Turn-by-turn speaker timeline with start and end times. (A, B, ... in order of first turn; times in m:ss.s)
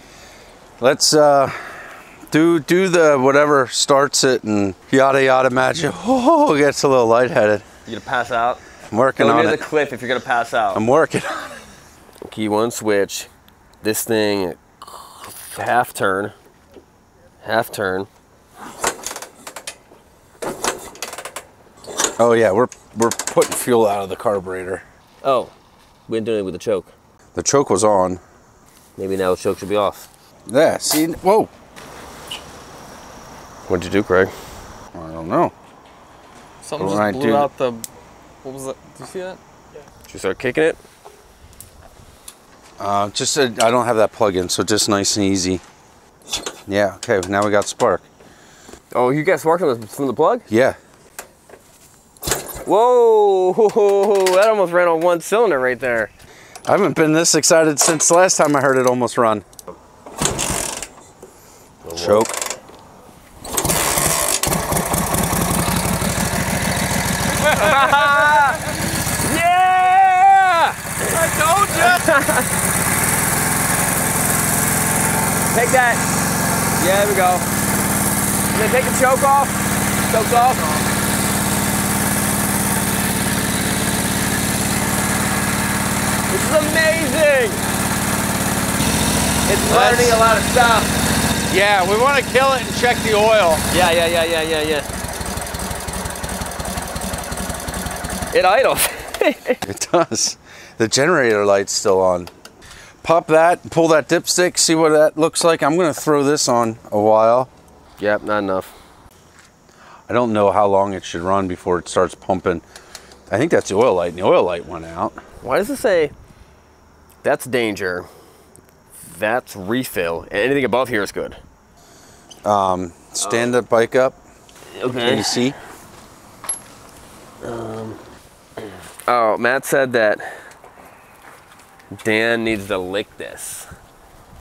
0:00.8-0:07.6 A
0:07.9-0:08.6 B
0:08.9-0:09.6 A
0:09.2-0:10.8 B
0:10.7-0:11.6 A
0:12.2-0:13.3 B
0:13.8-0:16.3 B
0:17.4-0:18.1 B
0:22.2-0:24.8 A
0:25.2-0:25.5 B
0:26.1-0:26.9 B
0:27.4-0:28.2 A
0:29.0-0:30.1 B
0:30.5-0:31.5 A
0:33.7-0:34.3 B
0:34.9-0:35.5 A
0:36.6-0:37.8 C
0:36.8-0:37.5 A
0:38.4-0:39.4 C
0:40.1-0:40.8 B
0:42.8-0:45.6 A
0:46.7-0:48.0 A
0:48.9-0:50.5 B
0:50.5-0:50.8 A
0:52.6-0:56.1 B
0:56.6-0:59.4 A
1:01.8-1:02.3 B
1:01.9-1:02.3 A
1:07.4-1:12.5 B
1:11.3-1:11.9 A
1:15.5-1:16.0 B
1:16.8-1:17.5 B
1:18.5-1:20.8 B
1:26.3-1:27.6 B
1:29.5-1:31.0 B
1:29.7-1:30.2 A
1:31.5-1:33.6 A
1:33.7-1:34.9 B
1:38.3-1:39.6 B
1:39.6-1:42.3 A
1:43.0-1:47.5 A
1:48.0-1:48.7 B
1:50.1-1:52.6 A
1:53.3-1:55.2 A
1:55.4-1:56.1 B
1:57.2-1:58.1 B
1:59.0-2:01.4 B
2:02.4-2:04.2 A
2:03.2-2:03.5 B
2:04.7-2:05.4 B
2:05.0-2:05.6 A
2:07.4-2:08.0 B
2:09.0-2:10.4 B
2:12.0-2:13.7 B